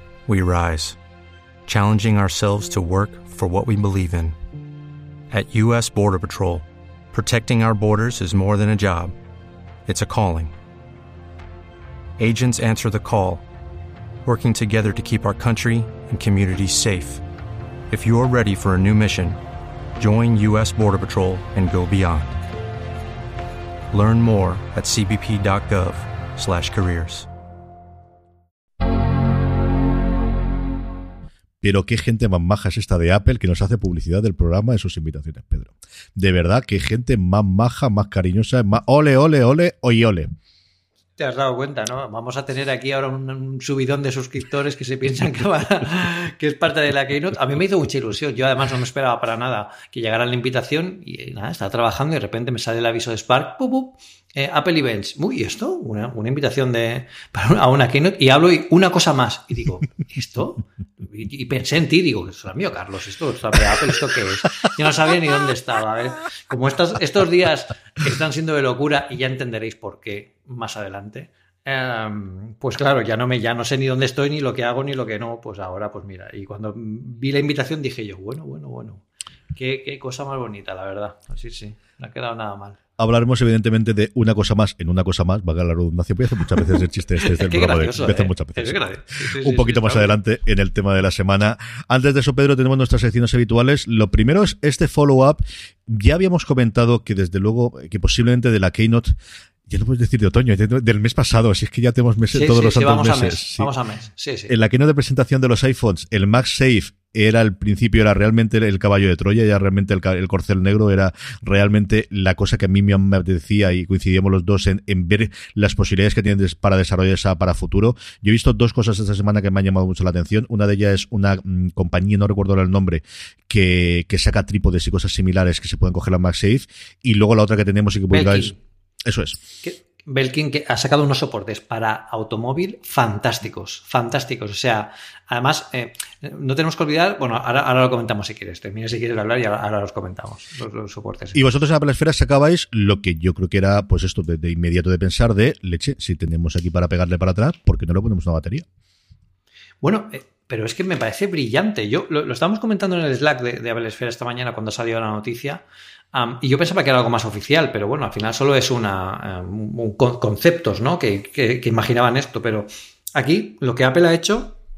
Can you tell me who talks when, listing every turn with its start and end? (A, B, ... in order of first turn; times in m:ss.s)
0:00.3-0:01.0 A
0:01.6-0:04.4 A
0:05.3-0:09.2 A
0:09.8-0:10.5 A
0:12.2-0:13.4 A
0:14.2-0:17.2 A
0:17.9-0:19.4 A
0:20.0-0:22.4 A
0:23.9-0:27.3 A
0:31.6-0:40.3 B
0:41.2-1:22.8 C
1:23.0-1:39.1 B
1:27.2-1:30.2 C
1:39.7-1:43.7 B
1:42.3-1:44.5 C
1:44.5-2:09.4 B
2:08.1-2:08.6 C
2:09.6-2:21.4 C
2:21.3-2:28.6 B
2:29.8-2:44.6 C